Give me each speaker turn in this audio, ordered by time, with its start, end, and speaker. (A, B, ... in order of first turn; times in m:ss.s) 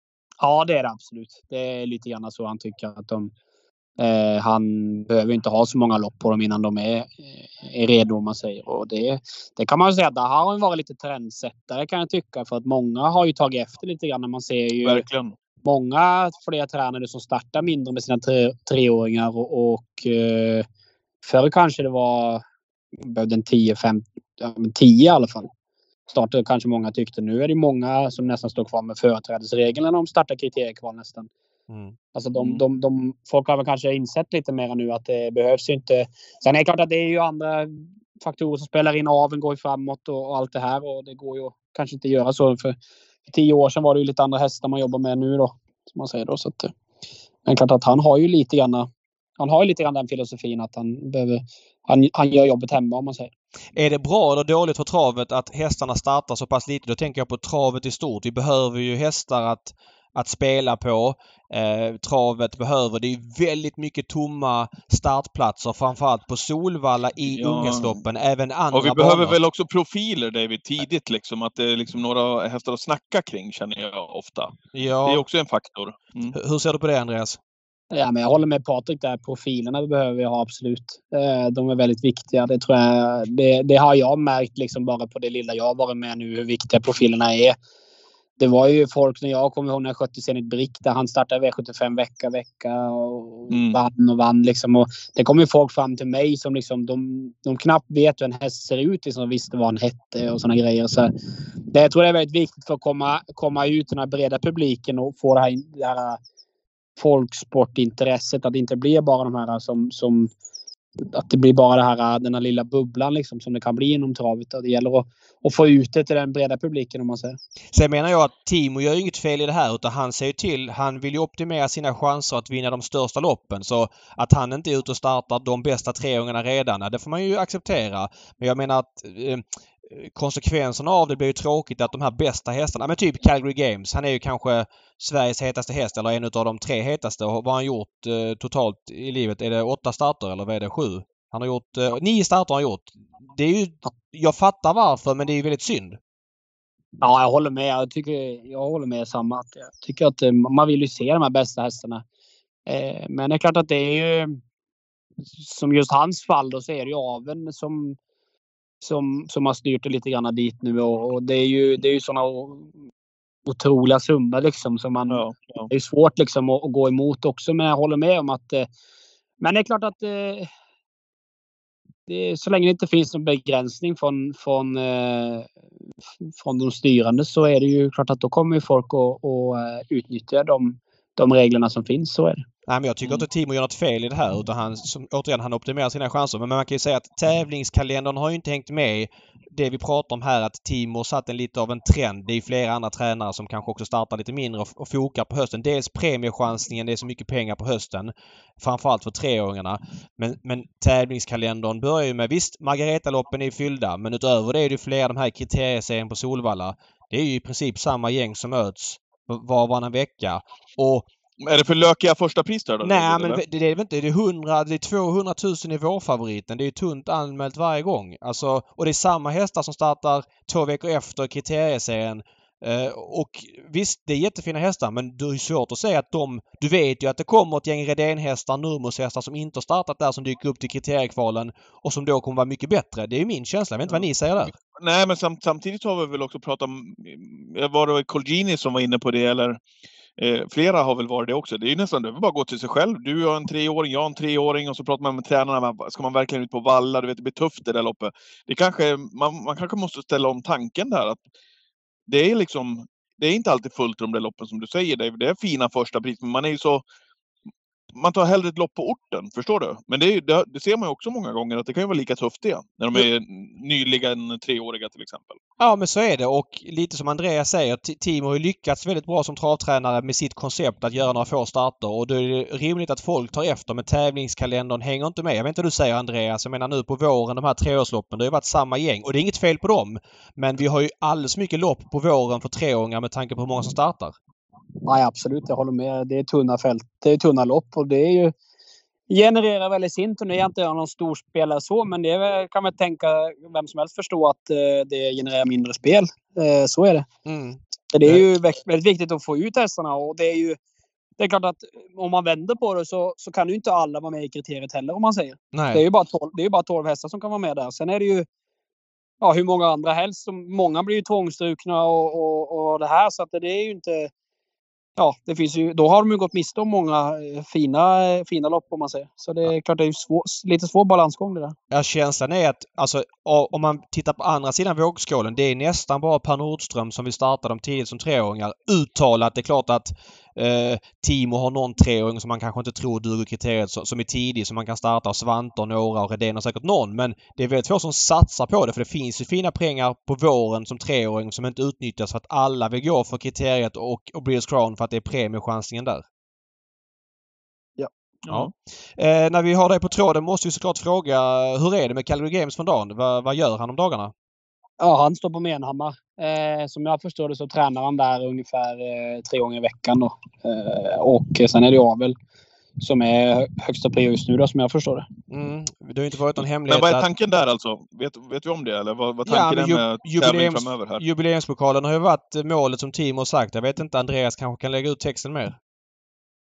0:00.4-0:03.3 A
0:04.0-0:15.0 A
0:14.8-0:15.3 B
0:15.6-0:20.6 A
0:21.2-0:22.4 A
0:23.0-0:25.5 A
0:26.1-0:31.3 A
0:31.7-0:32.0 C
0:32.1-0:42.8 A
0:32.4-0:32.6 B
0:43.3-0:46.7 A
0:47.4-0:53.3 A
0:53.8-1:09.4 C
1:07.3-1:08.0 B
1:08.7-1:14.5 B
1:14.7-1:15.2 C
1:15.0-1:16.3 B
1:16.3-1:17.4 C
1:17.9-1:27.6 A
1:28.4-1:41.1 A
1:33.5-1:33.8 B
1:41.7-1:46.2 A
1:47.0-1:50.3 A
1:51.0-1:57.4 A
1:57.7-2:26.0 C
2:27.0-2:32.0 A
2:32.6-2:34.4 A
2:35.3-2:38.0 A
2:38.8-2:42.7 A
2:43.4-2:48.7 A
2:45.1-2:45.7 B
2:49.4-2:50.5 A
2:52.1-2:55.5 A
2:56.3-3:02.4 A
3:02.7-3:31.1 C
3:31.4-3:33.4 B
3:32.8-3:54.5 C
3:54.7-3:59.6 B
4:00.2-4:11.2 B
4:12.1-4:16.8 B
4:17.9-4:25.4 B
4:25.6-4:44.2 C
4:44.8-4:48.3 A
4:49.1-4:57.1 A
4:57.2-4:58.2 C
4:57.9-5:00.6 A
5:01.2-5:08.2 A
5:05.5-5:05.8 C
5:09.2-5:14.1 A
5:15.0-5:21.6 A
5:21.7-5:46.0 C
5:48.2-5:48.5 B
5:48.3-5:54.1 C
5:54.8-6:02.2 A
6:02.8-6:05.1 A
6:05.3-6:07.0 C
6:06.7-6:11.0 B
6:09.2-6:15.6 C